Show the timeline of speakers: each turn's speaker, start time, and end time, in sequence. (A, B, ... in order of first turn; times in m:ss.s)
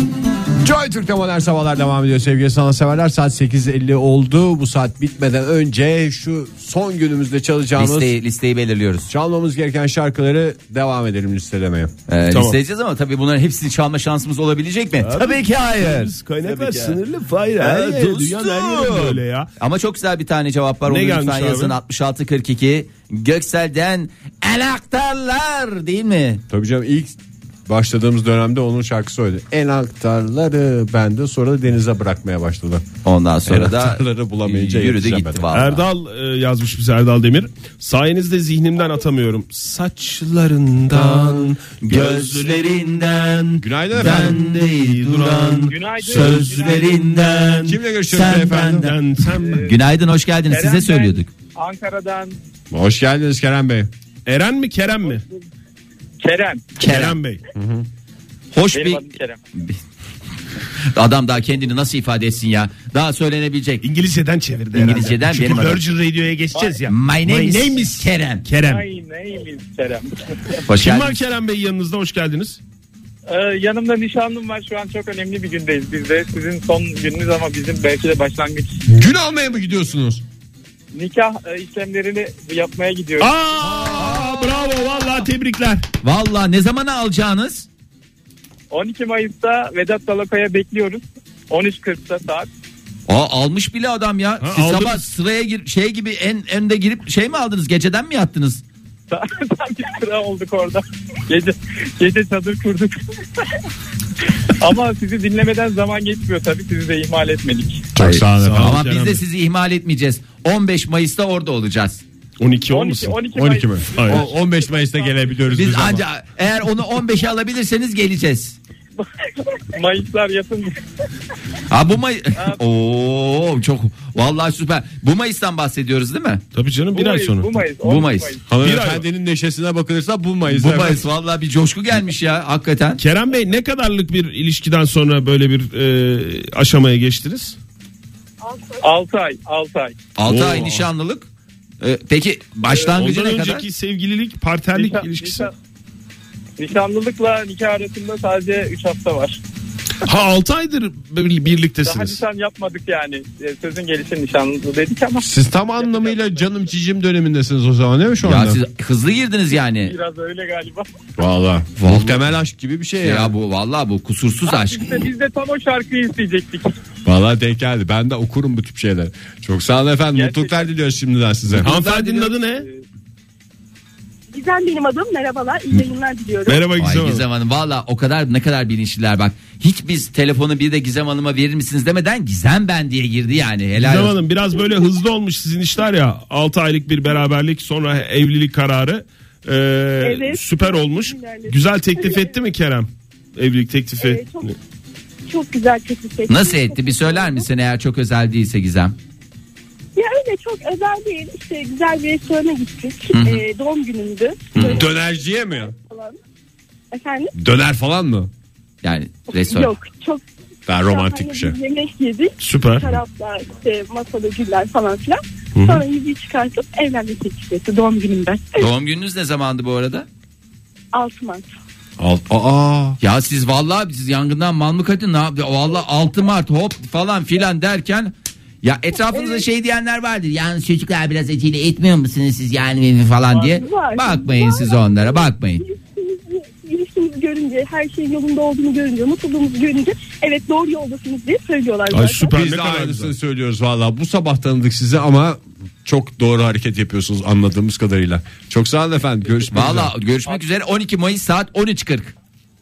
0:00.6-0:08.2 A
0:07.8-0:09.1 B
0:09.1-0:11.9 A
0:12.1-0:17.0 B
0:12.3-0:12.6 C
0:15.0-0:19.5 C
0:17.6-0:26.4 B
0:20.9-0:21.8 C
0:26.5-0:32.8 A
0:33.0-0:35.8 B
0:33.5-0:35.4 A
0:35.5-0:42.6 C
0:41.0-0:49.0 B
0:43.6-0:44.4 A
0:44.0-0:47.8 C
0:45.7-0:46.9 D
0:47.6-0:48.9 A
0:48.6-0:49.7 C
0:49.4-0:49.7 D
0:49.6-0:51.3 B
0:50.5-0:52.4 D
0:52.7-0:53.9 A
0:54.3-0:55.2 C
0:55.1-0:55.4 D
0:56.2-0:56.7 D
0:56.8-0:57.2 B
0:56.8-0:57.4 C
0:57.6-0:57.9 A
0:58.5-0:59.8 B
0:58.7-0:59.4 D
1:00.9-1:03.9 B
1:03.8-1:08.8 C
1:04.7-1:05.8 B
1:06.5-1:06.8 D
1:06.8-1:08.4 B
1:08.6-1:10.6 D
1:10.7-1:11.2 B
1:10.7-1:12.6 C
1:13.3-1:18.8 D
1:18.9-1:20.2 A
1:20.9-1:23.3 D
1:23.2-1:25.8 C
1:26.0-1:27.7 B
1:28.7-1:32.5 D
1:33.1-1:38.6 B
1:34.4-1:35.0 C
1:39.1-1:43.4 D
1:44.2-1:47.9 D
1:48.0-1:48.8 A
1:48.0-1:52.0 B
1:48.3-1:49.2 C
1:52.4-1:53.2 C
1:52.7-1:55.1 D
1:53.4-1:56.0 A
1:53.9-1:54.3 C
1:55.5-1:58.6 B
1:59.0-2:00.8 D
2:01.7-2:06.4 B
2:06.6-2:07.5 C
2:06.9-2:08.4 D
2:07.8-2:08.4 B
2:08.5-2:11.0 A
2:08.6-2:09.0 C
2:10.5-2:13.0 B
2:13.0-2:17.6 C
2:18.8-2:20.0 D
2:20.2-2:21.3 B
2:20.3-2:20.9 C
2:21.8-2:23.7 B
2:22.8-2:25.5 C
2:24.7-2:25.5 D
2:26.6-2:29.4 D
2:30.0-2:32.2 C
2:31.8-2:35.3 D
2:35.2-2:38.6 A
2:35.8-2:36.4 D
2:38.2-2:39.9 B
2:39.8-2:40.9 D
2:41.2-2:43.3 A
2:41.8-2:42.2 B
2:43.0-2:45.1 B
2:44.5-2:46.7 D
2:47.0-2:51.8 A
2:50.1-2:50.7 D
2:51.6-2:52.7 C
2:51.9-2:52.8 D
2:54.3-2:56.6 E
2:56.5-2:57.2 C
2:56.8-3:04.2 B
3:03.8-3:14.5 C
3:10.0-3:12.3 E
3:14.0-3:14.5 E
3:15.3-3:17.5 E
3:16.3-3:19.0 B
3:20.0-3:24.9 E
3:23.1-3:23.4 B
3:24.5-3:24.8 C
3:24.6-3:25.7 A
3:25.6-3:26.2 E
3:26.9-3:27.3 E
3:27.4-3:28.3 A
3:28.8-3:29.8 B
3:29.4-3:38.7 E
3:30.7-3:31.6 A
3:32.4-3:33.0 C
3:35.6-3:35.8 C
3:38.6-3:40.1 B
3:40.9-3:41.5 E
3:42.0-3:43.0 A
3:43.0-3:55.6 B
3:49.1-3:49.4 E
3:53.4-4:02.3 E
4:01.9-4:03.1 C
4:02.3-4:09.9 A
4:09.5-4:12.1 B